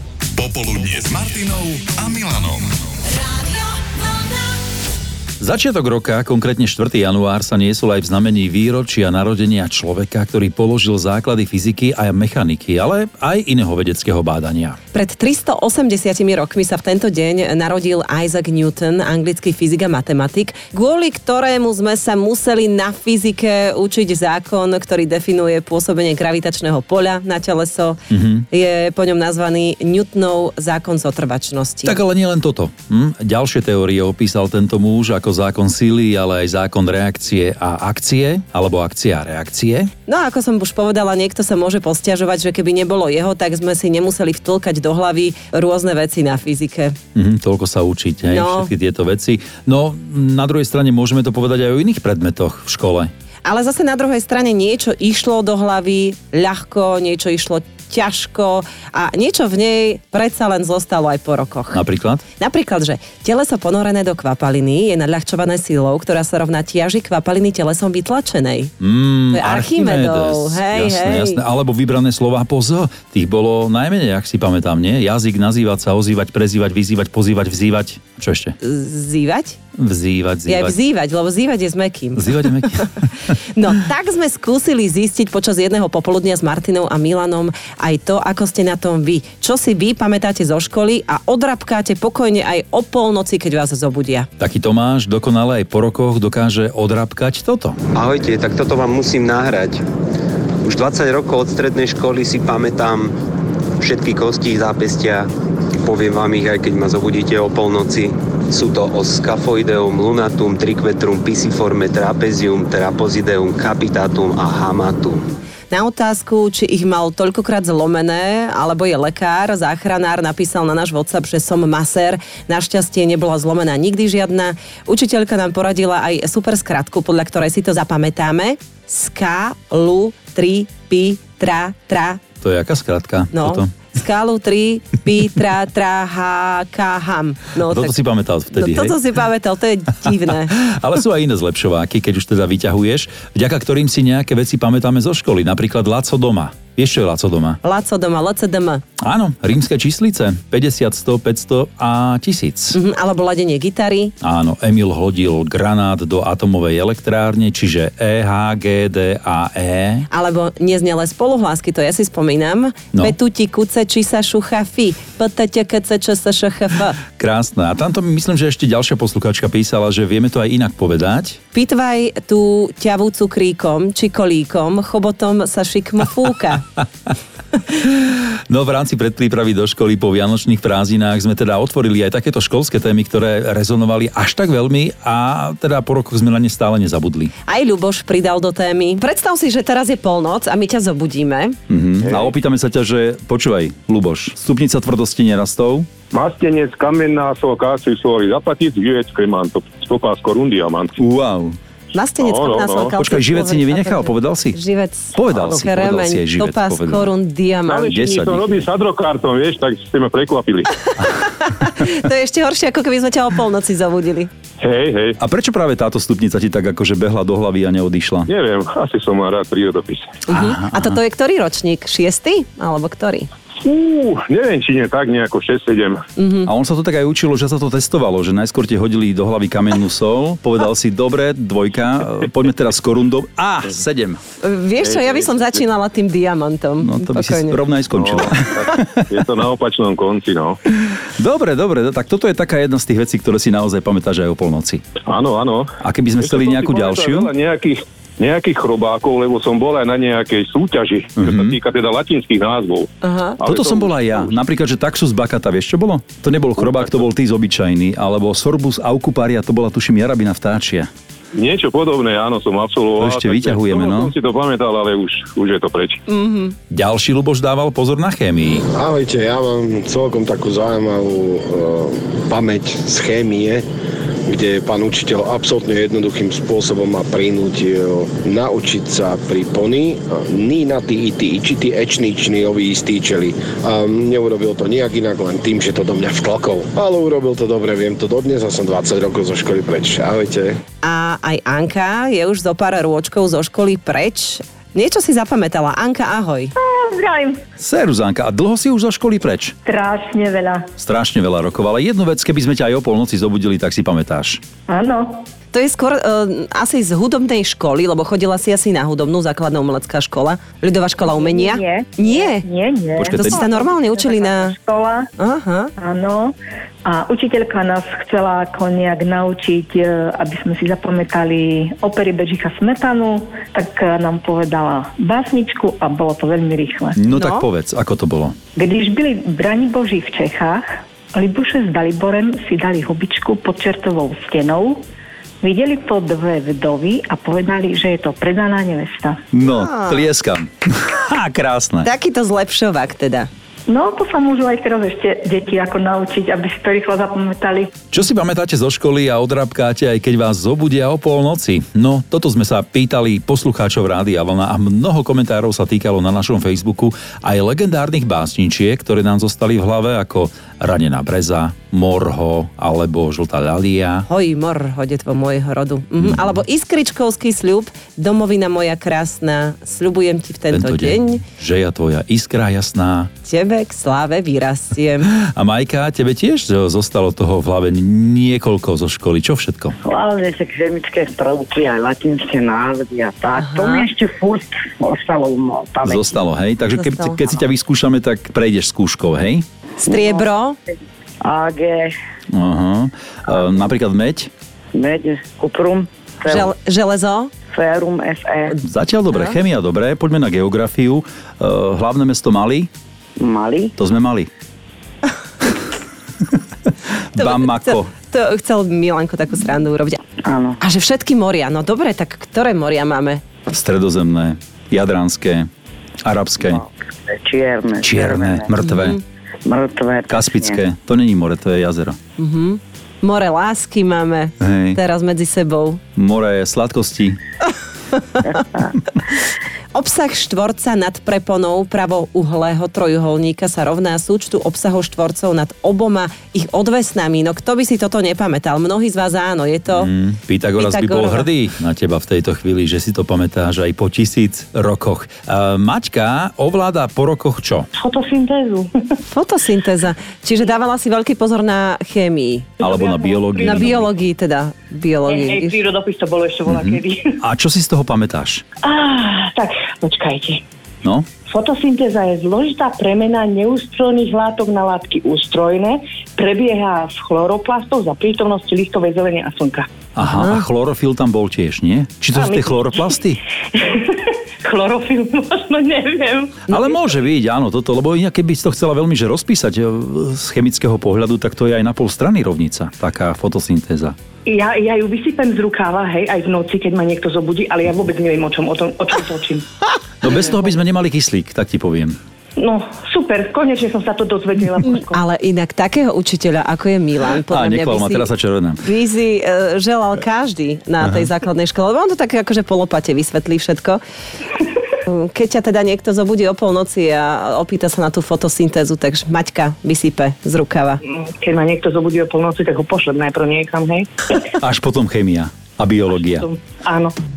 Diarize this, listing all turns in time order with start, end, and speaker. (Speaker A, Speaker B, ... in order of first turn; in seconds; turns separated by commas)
Speaker A: 0.3-2.7, Speaker B: 5.4-14.8, Speaker C: 14.9-28.0, Speaker B: 28.1-28.5, Speaker C: 28.5-32.0, Speaker B: 31.8-39.9, Speaker C: 40.1-46.9, Speaker B: 47.1-53.1, Speaker C: 48.3-48.7, Speaker C: 53.5-61.8, Speaker B: 61.7-62.2, Speaker C: 62.4-68.7, Speaker B: 68.8-78.5, Speaker C: 69.3-71.4, Speaker C: 78.6-79.6, Speaker B: 79.8-80.8, Speaker C: 80.5-82.6, Speaker B: 82.2-83.3, Speaker C: 83.5-94.3, Speaker B: 94.4-97.8, Speaker D: 97.9-99.8, Speaker D: 100.6-103.1, Speaker D: 103.8-105.3, Speaker D: 105.8-115.3, Speaker C: 115.7-132.2, Speaker B: 132.4-133.7, Speaker C: 133.3-140.5, Speaker B: 137.7-139.0, Speaker B: 140.5-147.6, Speaker C: 147.6-148.8, Speaker B: 149.0-152.8, Speaker C: 152.7-154.1, Speaker B: 154.2-160.1, Speaker C: 160.1-167.0, Speaker B: 167.2-171.4, Speaker C: 171.5-176.8, Speaker B: 177.7-187.3, Speaker C: 187.5-191.6, Speaker B: 191.7-195.9, Speaker E: 196.1-200.9, Speaker B: 201.0-201.6, Speaker C: 201.9-207.9, Speaker E: 202.2-203.0, Speaker B: 203.0-204.6, Speaker B: 205.1-207.1, Speaker E: 207.7-210.7, Speaker B: 207.9-208.5, Speaker C: 211.4-214.3, Speaker E: 214.6-215.2, Speaker B: 215.2-218.3, Speaker E: 218.3-220.1, Speaker C: 220.3-223.3, Speaker B: 220.3-220.9, Speaker E: 223.6-226.0, Speaker C: 226.2-226.5, Speaker B: 226.4-234.2, Speaker C: 234.4-237.6, Speaker E: 234.8-235.5, Speaker B: 236.8-238.8, Speaker E: 238.0-240.6, Speaker B: 240.8-244.8, Speaker E: 245.1-252.9, Speaker B: 245.8-247.3, Speaker B: 251.2-251.6, Speaker C: 253.0-253.4, Speaker E: 253.4-254.3, Speaker B: 253.5-260.9, Speaker E: 261.3-266.0, Speaker B: 263.0-264.1, Speaker C: 266.1-266.5, Speaker B: 266.7-268.6, Speaker F: 268.8-273.6, Speaker F: 274.3-290.6, Speaker C: 290.8-296.5, Speaker G: 296.6-297.4, Speaker B: 297.6-299.5, Speaker G: 299.6-300.6, Speaker B: 300.8-304.4, Speaker G: 304.7-305.2, Speaker C: 305.5-312.5, Speaker G: 311.0-315.1, Speaker B: 313.0-313.4, Speaker C: 313.3-314.5, Speaker C: 315.2-315.7, Speaker G: 315.8-316.3, Speaker G: 316.9-326.9, Speaker B: 327.0-328.4, Speaker C: 327.1-327.4, Speaker G: 328.6-330.6, Speaker G: 331.1-334.8, Speaker G: 335.4-339.2, Speaker B: 339.3-341.9, Speaker C: 339.5-340.1, Speaker C: 341.8-343.3, Speaker G: 343.7-347.7, Speaker B: 347.9-364.1, Speaker C: 364.1-371.2, Speaker B: 370.5-373.1, Speaker C: 373.2-375.1, Speaker B: 375.0-379.7, Speaker H: 379.8-386.1, Speaker C: 383.3-383.9, Speaker B: 385.8-389.4, Speaker C: 386.7-387.2, Speaker C: 389.8-390.6, Speaker H: 389.8-390.2, Speaker H: 391.2-391.9, Speaker B: 392.3-394.3, Speaker H: 394.7-396.5, Speaker C: 396.2-397.3, Speaker H: 397.5-398.5, Speaker B: 398.6-402.7, Speaker H: 403.2-403.7, Speaker B: 403.8-404.3, Speaker B: 407.1-407.9, Speaker C: 407.2-410.0, Speaker H: 410.2-410.6, Speaker C: 410.6-413.2, Speaker B: 413.5-415.5, Speaker B: 416.0-416.6, Speaker H: 416.4-418.5, Speaker B: 417.8-419.0, Speaker C: 418.6-419.0, Speaker H: 419.4-420.6, Speaker B: 420.1-422.0, Speaker C: 422.2-425.8, Speaker B: 424.4-424.8, Speaker B: 425.9-427.2, Speaker C: 429.7-439.9, Speaker B: 439.7-447.7, Speaker C: 440.6-441.3, Speaker I: 447.8-449.0, Speaker C: 449.1-452.6, Speaker I: 452.6-453.7, Speaker B: 452.6-453.9, Speaker C: 453.4-455.6, Speaker I: 455.1-457.1, Speaker B: 456.5-458.4, Speaker I: 458.6-460.4, Speaker I: 461.3-469.7, Speaker B: 469.9-473.2, Speaker I: 472.1-473.0, Speaker I: 473.6-476.8, Speaker B: 476.5-483.9, Speaker I: 484.2-489.4, Speaker B: 490.0-492.0, Speaker I: 492.4-495.0, Speaker C: 494.9-498.1, Speaker B: 497.3-498.6, Speaker C: 498.6-503.8, Speaker C: 504.9-510.8, Speaker I: 510.9-514.2, Speaker B: 514.2-516.2, Speaker I: 516.0-516.9